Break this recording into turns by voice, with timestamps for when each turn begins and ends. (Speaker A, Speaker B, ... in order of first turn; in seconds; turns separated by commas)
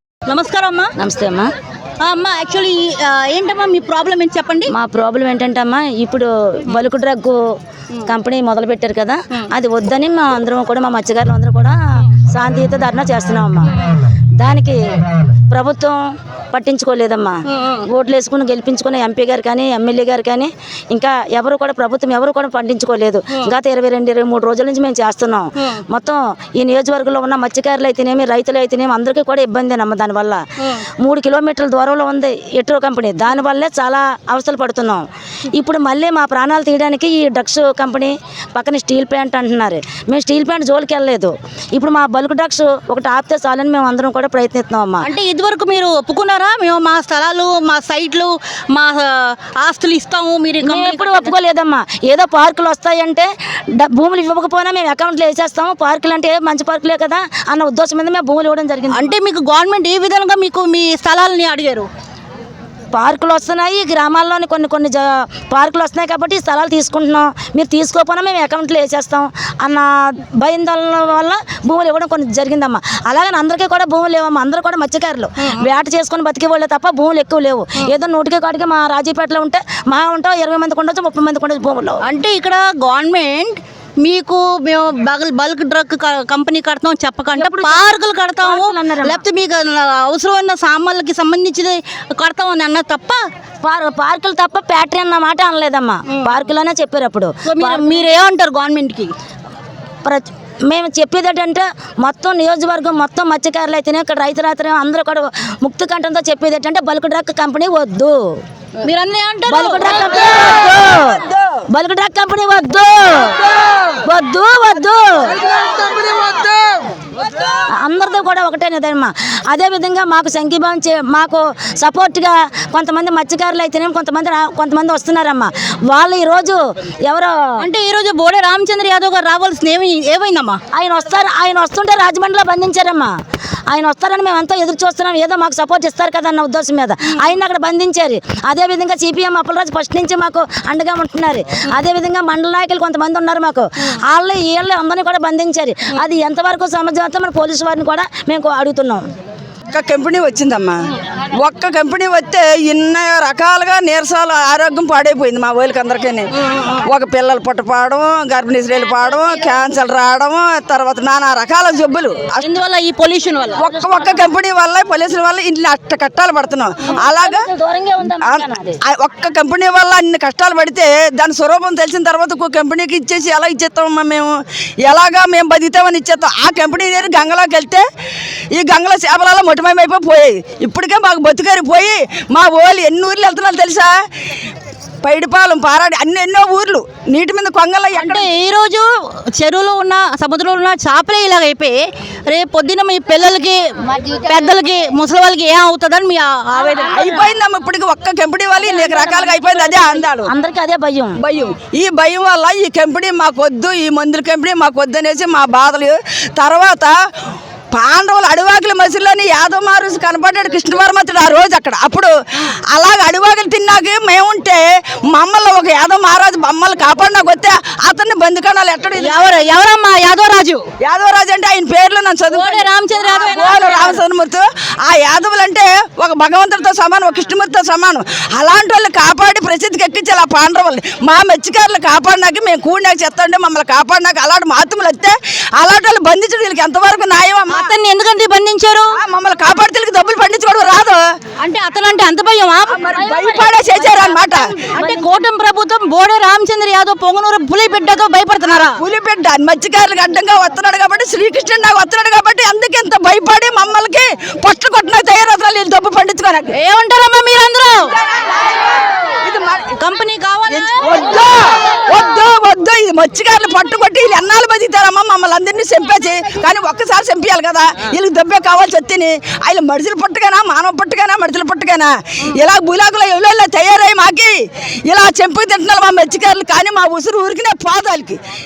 Speaker A: 0.3-0.9, Speaker B: 1.0-1.5, Speaker A: 2.0-4.7, Speaker B: 4.7-7.5, Speaker B: 8.0-13.7, Speaker B: 14.4-30.4, Speaker A: 17.5-17.9, Speaker B: 31.0-45.1, Speaker A: 45.0-51.3, Speaker B: 50.6-59.1, Speaker A: 58.9-61.9, Speaker B: 62.9-82.0, Speaker A: 82.0-93.2, Speaker B: 87.3-87.9, Speaker B: 88.4-89.2, Speaker B: 93.6-98.1, Speaker A: 96.1-96.4, Speaker A: 97.4-99.1, Speaker B: 100.0-108.4, Speaker A: 108.8-110.4, Speaker B: 109.5-115.4, Speaker B: 117.7-127.5, Speaker A: 127.6-130.6, Speaker B: 130.7-133.1, Speaker B: 133.7-149.1, Speaker C: 149.7-150.8, Speaker C: 151.3-162.5, Speaker A: 162.4-163.7, Speaker C: 163.6-167.4, Speaker B: 166.9-168.8, Speaker C: 168.2-177.8, Speaker C: 178.5-183.9, Speaker C: 185.0-188.3, Speaker A: 187.9-197.2, Speaker C: 196.9-200.3, Speaker A: 198.6-200.0, Speaker B: 200.2-201.2, Speaker C: 201.2-206.9, Speaker C: 207.7-212.1, Speaker C: 212.7-219.3, Speaker A: 219.0-220.6, Speaker C: 220.8-237.7, Speaker A: 222.3-224.0, Speaker A: 237.5-239.0, Speaker C: 238.9-241.0, Speaker A: 241.4-248.8, Speaker C: 242.7-244.5, Speaker C: 248.8-256.5, Speaker A: 256.5-257.9, Speaker C: 259.2-259.7, Speaker A: 259.8-260.8, Speaker C: 260.5-278.2